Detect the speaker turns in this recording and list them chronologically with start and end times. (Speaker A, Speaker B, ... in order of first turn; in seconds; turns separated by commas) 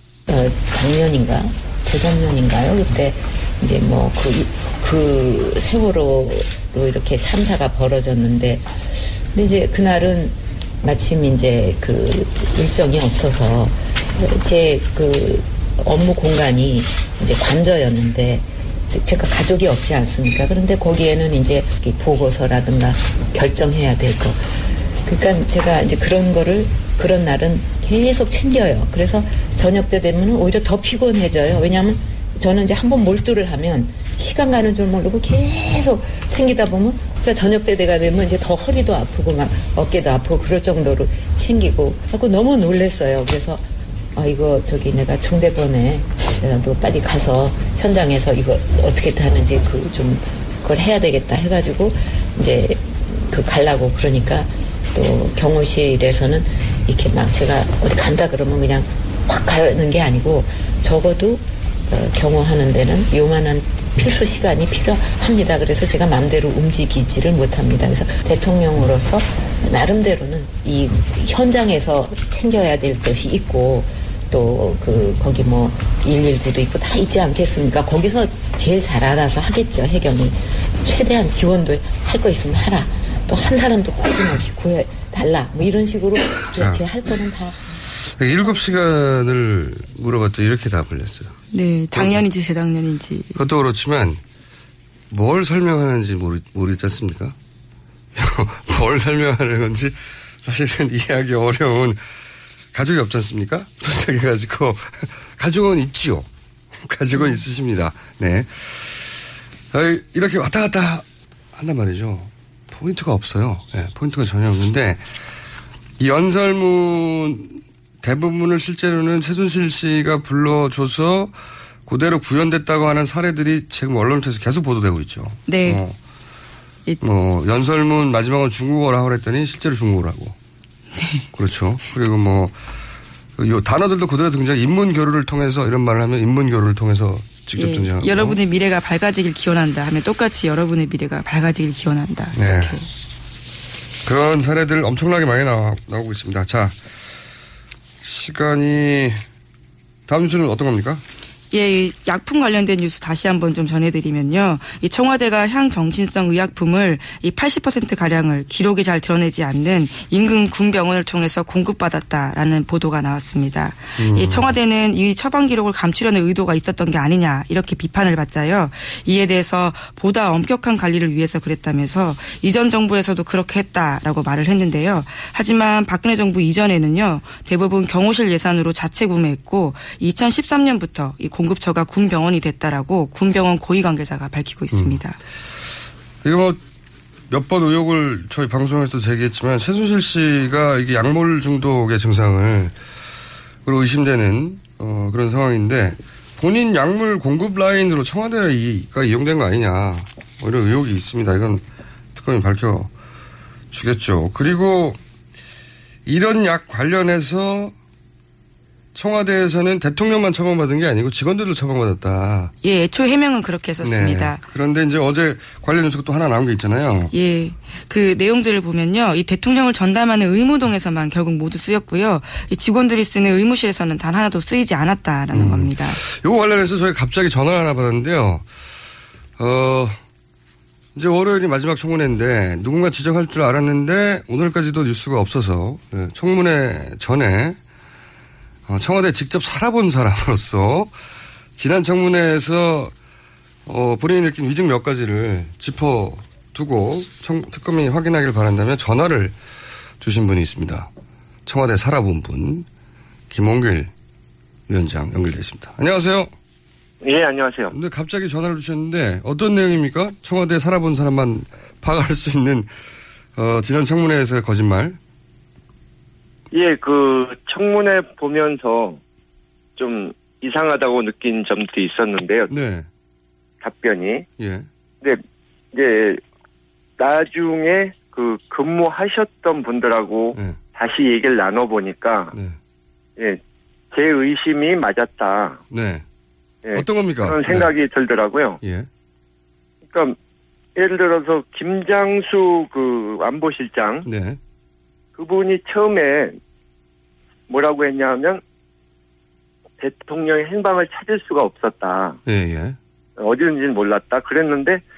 Speaker A: 0.3-87.6, Speaker B: 88.2-91.3, Speaker C: 91.5-93.3, Speaker B: 91.9-92.2, Speaker B: 93.3-94.2, Speaker B: 95.1-97.3, Speaker B: 98.1-102.0, Speaker B: 102.7-106.3, Speaker B: 106.8-115.0, Speaker B: 116.0-121.3, Speaker B: 121.9-125.9, Speaker C: 125.5-125.8, Speaker B: 127.0-130.3, Speaker C: 130.9-131.3, Speaker B: 131.3-132.6, Speaker B: 133.4-138.4, Speaker C: 137.6-142.9, Speaker B: 142.3-142.8, Speaker B: 144.0-146.7, Speaker B: 148.0-149.2, Speaker B: 150.1-151.0, Speaker C: 151.5-185.2, Speaker B: 164.0-164.5, Speaker B: 184.7-185.0, Speaker B: 186.2-186.6, Speaker B: 187.3-192.7, Speaker B: 193.6-201.6, Speaker B: 202.1-202.9, Speaker B: 203.7-205.0, Speaker B: 206.1-207.7, Speaker B: 208.9-212.5, Speaker C: 212.6-214.4, Speaker B: 213.8-217.1, Speaker C: 217.1-226.0, Speaker B: 225.3-228.4, Speaker B: 229.4-230.0, Speaker B: 230.9-237.6, Speaker B: 238.7-240.9, Speaker B: 241.6-242.9, Speaker B: 243.7-249.3, Speaker B: 250.0-250.9, Speaker B: 251.4-252.7, Speaker B: 253.3-253.9, Speaker B: 254.7-256.3, Speaker D: 257.0-257.7, Speaker B: 257.7-262.7, Speaker B: 263.4-265.0, Speaker D: 266.5-269.0, Speaker D: 269.8-272.5, Speaker B: 272.5-272.9, Speaker D: 273.6-274.2, Speaker B: 274.4-274.7, Speaker D: 275.7-276.2, Speaker D: 277.0-282.3, Speaker D: 283.9-285.6, Speaker B: 285.7-286.0, Speaker D: 286.6-288.6, Speaker B: 286.7-287.7, Speaker B: 288.6-288.9, Speaker D: 289.9-290.2, Speaker D: 290.8-294.1, Speaker B: 294.1-294.4, Speaker D: 295.1-296.4, Speaker D: 297.5-298.4, Speaker D: 299.8-302.2, Speaker B: 302.2-302.8, Speaker D: 303.2-304.8